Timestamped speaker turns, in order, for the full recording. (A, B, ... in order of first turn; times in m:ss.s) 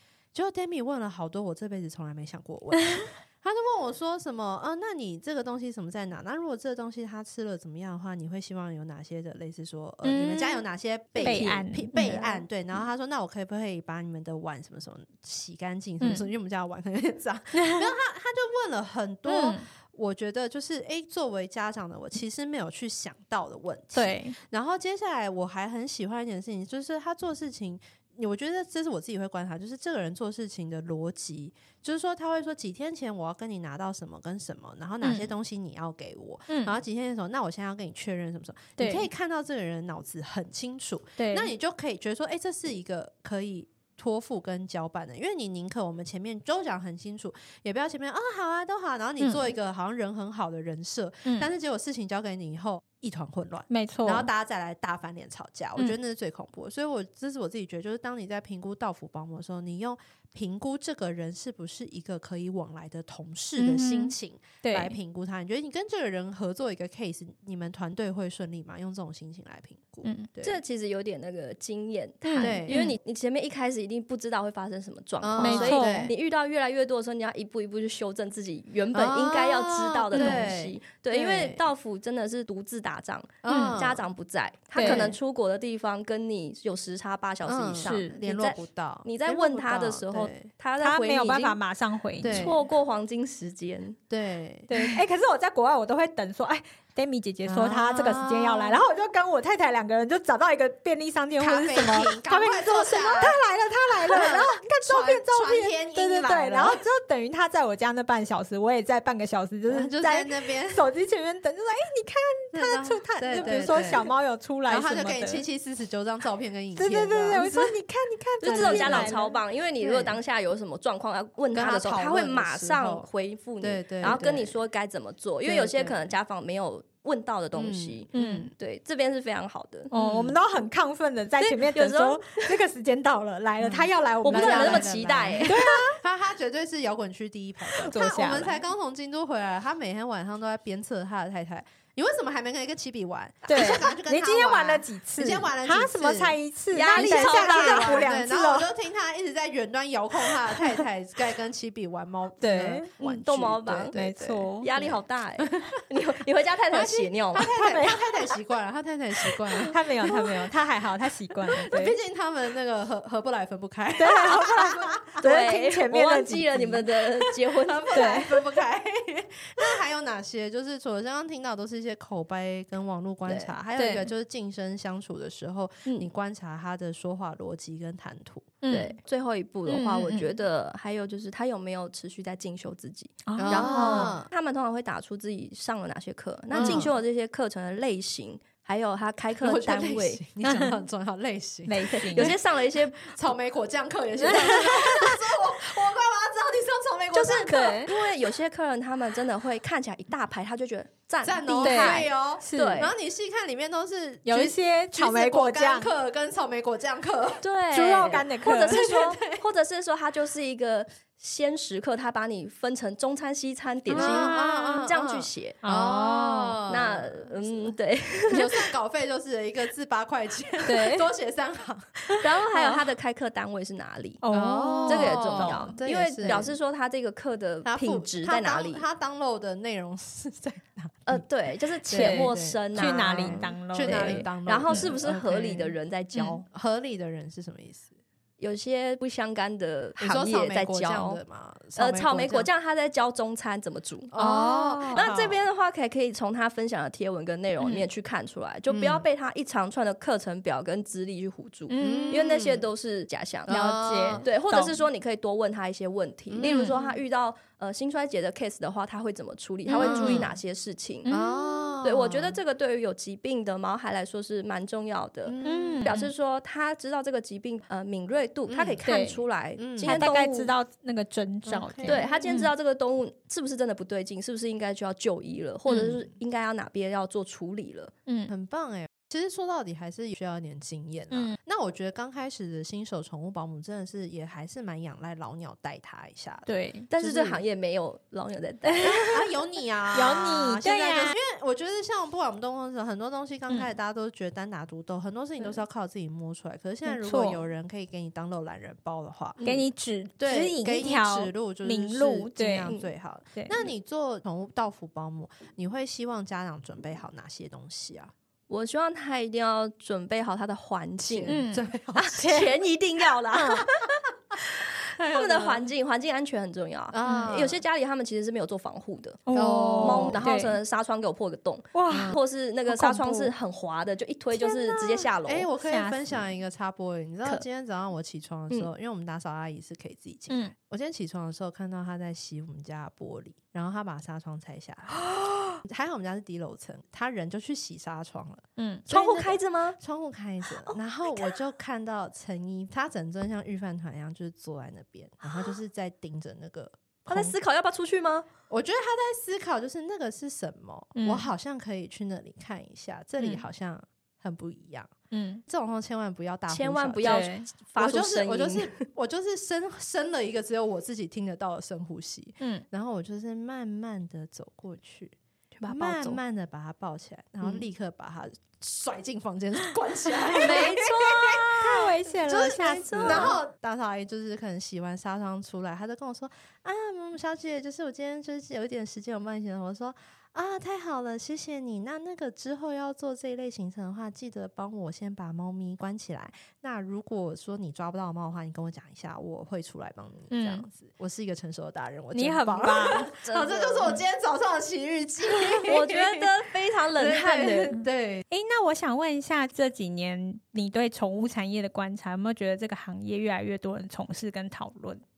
0:00.3-1:10.6 A
0:10.0-0:10.6 B
0:11.2-0:12.4 B
0:16.0-0:16.2 B
0:17.6-0:17.9 B
0:19.3-0:19.6 B
0:23.9-0:24.4 B
0:35.0-0:35.3 B
0:36.5-0:36.7 B
0:38.8-0:39.1 B
0:41.2-0:41.5 B
0:49.2-0:49.5 B
0:53.7-0:54.3 B
1:03.6-1:05.0 B
1:10.0-1:10.3 B
1:10.4-1:31.6 C
1:12.2-1:12.9 B
1:12.4-1:12.9 A
1:15.2-1:16.1 A
1:15.4-1:16.1 B
1:18.9-1:21.6 A
1:20.1-1:20.4 B
1:23.4-1:24.0 A
1:23.4-1:23.8 B
1:24.7-1:25.1 B
1:24.8-1:25.2 A
1:27.4-1:30.5 A
1:27.8-1:28.1 B
1:30.8-1:32.5 B
1:32.2-1:32.6 A
1:32.2-1:34.0 C
1:34.1-1:35.0 A
1:34.7-1:55.4 B
1:37.4-1:38.8 A
1:41.4-1:43.4 A
1:44.0-1:46.8 A
1:49.7-1:50.8 A
1:52.5-1:54.1 A
1:54.7-1:57.8 A
1:56.8-1:59.4 B
1:58.4-2:09.9 C
1:58.4-1:59.3 A
1:59.8-2:00.2 A
2:01.5-2:03.1 A
2:03.6-2:04.6 A
2:05.4-2:06.0 A
2:07.6-2:08.5 A
2:08.1-2:08.5 B
2:09.9-2:14.9 B
2:09.9-2:10.4 A
2:11.4-2:12.6 C
2:13.6-2:26.4 A
2:14.2-2:15.6 C
2:15.4-2:16.0 B
2:17.7-2:18.6 B
2:23.5-2:28.7 B
2:26.7-2:28.1 C
2:26.9-2:34.4 A
2:30.6-2:30.8 B
2:32.4-2:32.9 B
2:33.0-2:37.6 C
2:33.9-2:34.9 B
2:35.4-2:35.8 A
2:36.7-2:40.6 A
2:37.4-2:38.4 B
2:39.4-2:42.0 B
2:41.5-2:45.2 A
2:44.0-2:46.8 B
2:45.2-2:48.3 C
2:47.2-2:58.5 A
2:47.9-2:48.4 B
2:53.2-2:53.5 C
2:53.8-2:54.1 B
2:58.6-2:59.0 B
2:58.7-3:10.2 C
2:59.7-3:00.3 B
3:03.3-3:04.2 B
3:03.4-3:04.3 A
3:06.5-3:06.9 A
3:06.6-3:06.9 B
3:09.4-3:17.9 A
3:10.4-3:10.8 B
3:11.7-3:12.4 B
3:12.1-3:13.1 C
3:14.2-3:15.2 B
3:17.1-3:22.9 C
3:17.4-3:17.9 B
3:21.2-3:27.4 A
3:21.6-3:22.9 B
3:24.2-3:25.9 B
3:27.4-3:35.6 C
3:27.7-3:29.1 B
3:28.6-3:29.4 A
3:33.9-3:34.9 B
3:33.9-3:37.4 A
3:35.6-3:36.6 B
3:36.7-3:38.6 C
3:38.3-3:42.2 A
3:40.6-3:41.1 B
3:42.2-3:44.2 C
3:42.5-3:42.8 B
3:44.2-3:45.8 B
3:44.3-3:46.5 A
3:44.9-3:48.8 C
3:47.6-3:51.2 A
3:51.1-3:56.4 C
3:51.9-3:55.7 A
3:51.9-3:54.9 B
3:56.5-3:57.9 A
3:58.4-4:01.2 C
4:00.0-4:02.5 A
4:01.7-4:04.2 C
4:04.1-4:05.4 A
4:04.1-4:05.2 B
4:04.9-4:13.6 C
4:07.6-4:07.8 B
4:08.7-4:09.1 A
4:11.7-4:12.3 B
4:11.8-4:12.6 A
4:13.5-4:14.2 A
4:13.5-4:14.8 B
4:14.2-4:21.1 C
4:16.3-4:16.9 A
4:16.4-4:16.8 B
4:19.7-4:20.3 B
4:19.7-4:20.4 A
4:21.1-4:21.7 B
4:21.1-4:22.4 A
4:21.8-4:30.5 C
4:25.2-4:25.9 A
4:25.4-4:26.1 B
4:28.5-4:28.8 A
4:28.9-4:29.2 B
4:29.6-4:30.1 A
4:29.8-4:32.5 B
4:31.4-4:32.1 A
4:31.8-4:37.9 C
4:35.7-4:36.0 A
4:38.1-4:38.3 B
4:38.3-4:47.4 A
4:41.1-4:41.4 B
4:46.4-4:46.9 B
4:46.9-4:49.1 C
4:48.7-4:49.3 B
4:48.9-4:59.6 A
4:49.9-4:51.2 B
4:56.8-4:57.4 B
4:59.4-5:02.7 B
5:00.2-5:08.1 A
5:03.3-5:03.6 B
5:08.5-5:11.4 C
5:11.0-5:12.3 A
5:11.3-5:12.5 B
5:11.9-5:25.5 C
5:13.3-5:13.6 B
5:14.9-5:15.7 A
5:16.9-5:17.6 A
5:17.0-5:17.4 B
5:19.3-5:20.6 B
5:19.3-5:20.2 A
5:21.7-5:22.2 B
5:21.9-5:22.1 A
5:22.8-5:23.3 B
5:24.3-5:47.4 A
5:25.6-5:26.3 B
5:35.0-5:35.6 B
5:38.6-5:38.8 B
5:38.9-5:39.8 C
5:40.6-5:41.4 C
5:47.1-5:48.3 C
5:48.5-5:54.9 A
5:51.0-5:51.2 B
5:53.2-5:53.4 B
5:55.1-5:55.4 B
5:55.4-6:05.2 A
5:56.5-5:58.8 C
5:57.0-5:57.5 B
6:02.4-6:02.6 B
6:05.6-6:06.2 C
6:05.7-6:36.3 A
6:10.2-6:13.4 B
6:10.4-6:11.9 C
6:12.8-6:13.4 C
6:30.3-6:30.6 B
6:32.1-6:33.1 B
6:33.2-6:34.0 C
6:35.6-6:37.8 C
6:36.9-6:38.2 A
6:38.3-6:45.0 B